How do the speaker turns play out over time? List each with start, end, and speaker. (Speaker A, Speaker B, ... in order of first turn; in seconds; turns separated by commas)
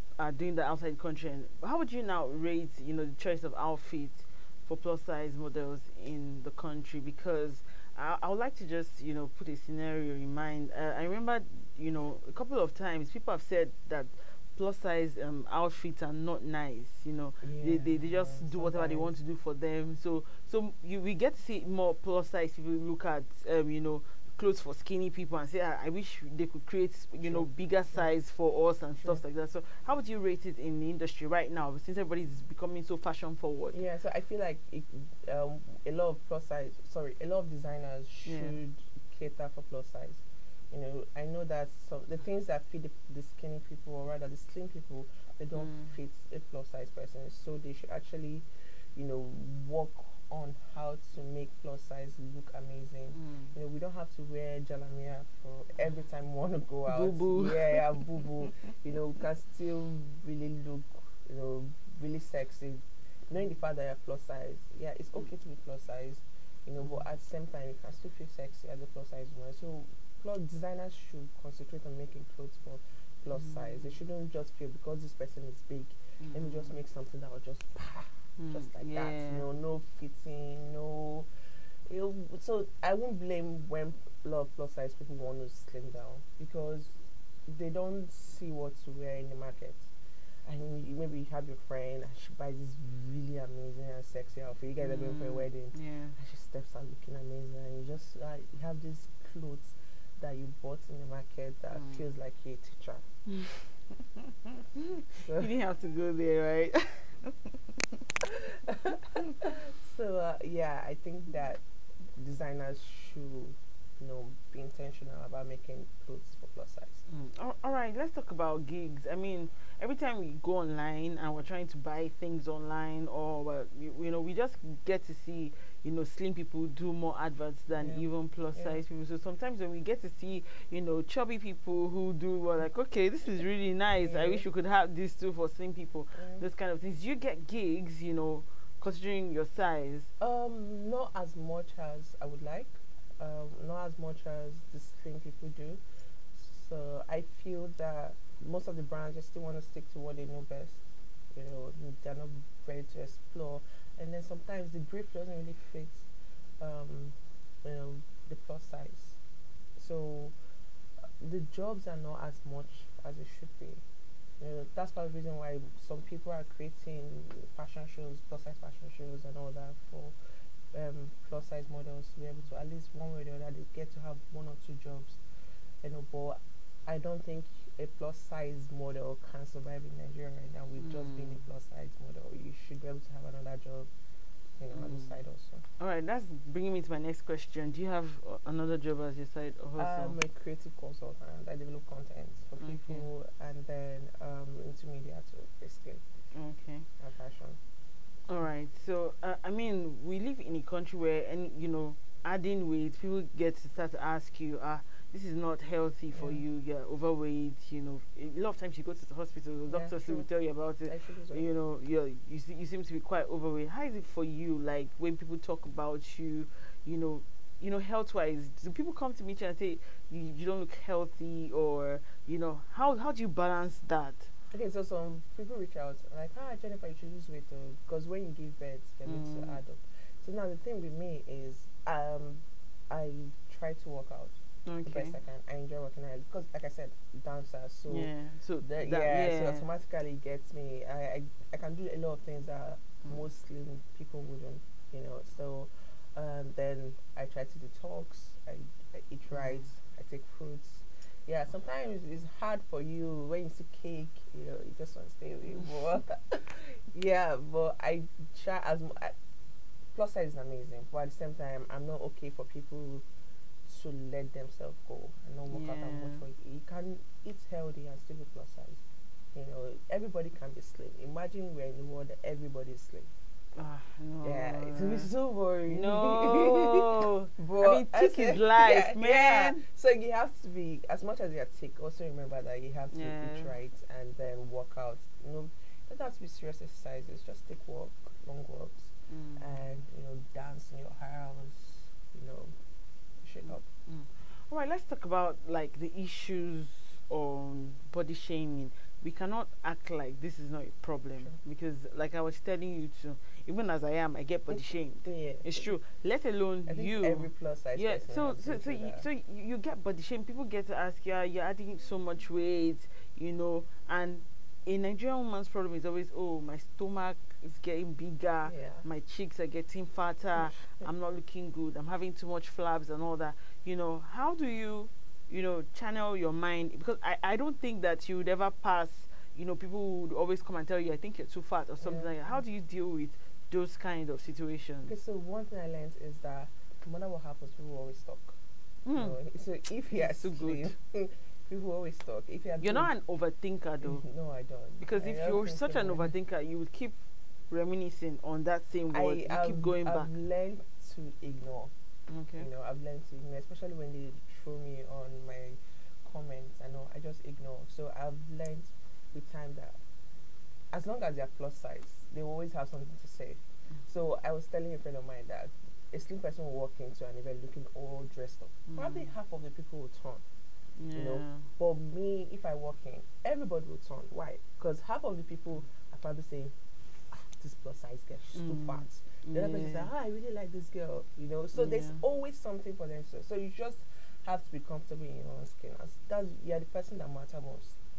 Speaker A: 0.2-33.8, Speaker B: 17.4-19.1, Speaker B: 27.2-28.1, Speaker B: 33.7-81.3, Speaker A: 38.2-38.6, Speaker A: 45.5-45.9, Speaker A: 53.1-53.5, Speaker A: 56.9-57.9, Speaker A: 73.3-73.9, Speaker A: 76.2-76.7, Speaker A: 78.4-79.4, Speaker B: 81.8-89.9, Speaker B: 90.4-103.0, Speaker A: 94.8-96.1, Speaker A: 101.7-102.0, Speaker A: 103.3-107.6, Speaker B: 105.2-105.5, Speaker B: 108.2-117.0, Speaker A: 117.1-140.1, Speaker B: 127.8-128.8, Speaker B: 134.0-134.4, Speaker B: 136.1-136.4, Speaker B: 140.2-145.8, Speaker B: 146.3-156.1, Speaker B: 156.6-159.2, Speaker B: 159.8-160.3, Speaker B: 161.0-163.8, Speaker B: 164.4-170.2, Speaker B: 170.7-175.2, Speaker B: 175.8-183.9, Speaker A: 180.8-181.4, Speaker B: 184.6-185.6, Speaker A: 184.7-185.2, Speaker A: 185.8-190.2, Speaker B: 189.8-196.0, Speaker A: 192.6-193.1, Speaker A: 196.3-196.9, Speaker B: 197.0-197.6, Speaker A: 198.3-224.3, Speaker B: 206.1-206.4, Speaker B: 209.7-210.3, Speaker B: 210.8-211.5, Speaker B: 224.5-259.1, Speaker A: 229.1-229.6, Speaker A: 234.7-235.1, Speaker A: 237.9-239.7, Speaker A: 249.3-249.7, Speaker B: 259.9-263.0, Speaker B: 263.6-268.8, Speaker A: 265.5-266.2, Speaker B: 269.3-273.1, Speaker A: 273.5-275.1, Speaker B: 274.2-292.5, Speaker A: 275.7-279.6, Speaker A: 282.9-283.5, Speaker A: 289.1-289.6, Speaker B: 293.2-293.6, Speaker A: 293.9-334.9, Speaker B: 304.5-305.7, Speaker B: 306.6-309.1, Speaker B: 318.5-318.9, Speaker B: 320.4-320.9, Speaker B: 331.8-332.3, Speaker B: 334.8-338.4, Speaker A: 338.8-339.2, Speaker B: 338.9-342.9, Speaker A: 339.9-340.7, Speaker A: 342.6-344.0, Speaker B: 343.8-346.1, Speaker A: 344.8-347.0, Speaker A: 347.5-350.1, Speaker B: 348.9-351.7, Speaker A: 352.1-352.5, Speaker B: 352.4-359.8, Speaker B: 360.7-370.2, Speaker A: 368.7-369.1, Speaker A: 370.8-371.5, Speaker B: 370.9-376.5, Speaker B: 377.1-387.8, Speaker A: 378.3-379.9, Speaker A: 381.5-382.0